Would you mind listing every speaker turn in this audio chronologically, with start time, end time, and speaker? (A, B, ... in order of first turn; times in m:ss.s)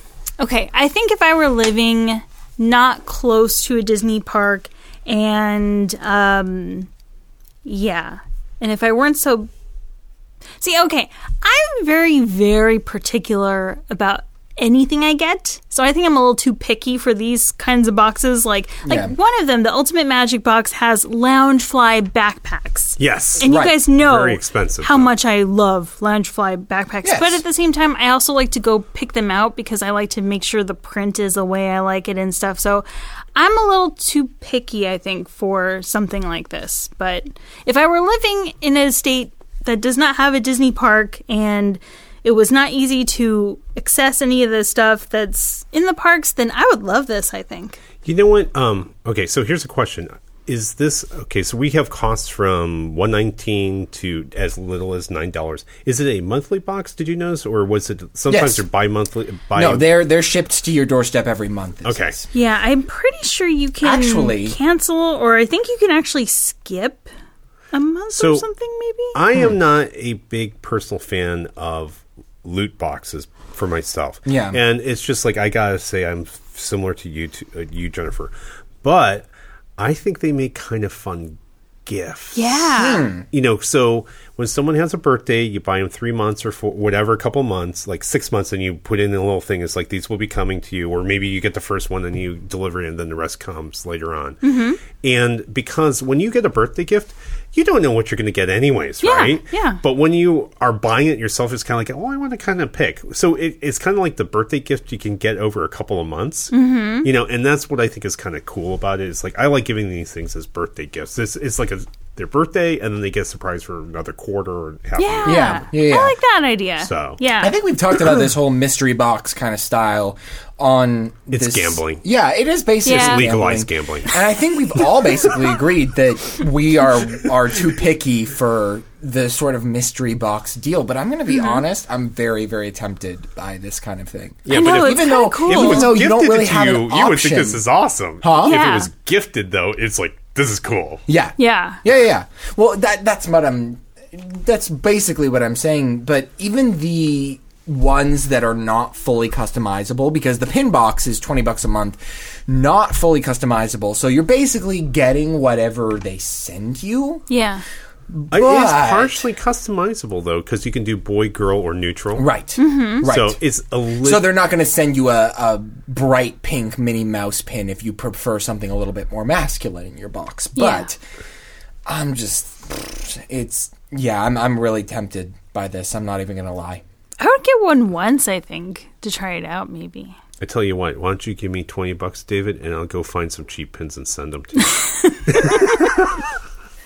0:00.4-0:06.9 A
0:07.6-0:09.5 A
0:10.6-0:47.8 A
0:18.8-0:19.2 B
0:23.0-0:25.1 C
0:23.4-0:23.8 B
0:27.0-0:27.4 B
0:48.0-0:59.9 C
0:58.3-0:58.6 B
0:59.6-1:02.3 B
1:01.8-1:02.2 C
1:02.3-1:07.1 A
1:03.8-1:04.6 B
1:07.7-1:09.2 A
1:08.1-1:08.5 C
1:09.1-1:22.7 C
1:14.3-1:14.6 B
1:22.4-1:23.1 A
1:22.8-1:23.3 B
1:23.3-1:55.6 C
1:34.4-1:34.8 A
1:39.0-1:39.8 A
1:46.5-1:47.1 A
1:55.0-1:57.5 A
1:55.2-1:56.2 B
1:56.8-1:57.2 C
1:57.4-2:17.6 B
2:01.3-2:02.0 C
2:02.9-2:03.3 A
2:02.9-2:04.1 C
2:11.3-2:11.6 A
2:14.4-2:21.0 C
2:14.5-2:16.0 A
2:18.2-2:18.6 B
2:18.4-2:18.9 A
2:21.1-2:37.3 B
2:21.4-2:21.8 A
2:37.3-2:37.6 A
2:38.1-2:39.3 B
2:38.3-2:42.3 C
2:42.2-2:43.4 B
2:42.6-2:43.1 A
2:43.0-2:44.3 C
2:44.0-2:51.0 B
2:50.6-2:50.9 A
2:51.9-2:56.8 B
2:57.2-3:00.2 A
3:00.4-3:04.8 C
3:04.8-3:05.9 A
3:05.3-3:06.2 C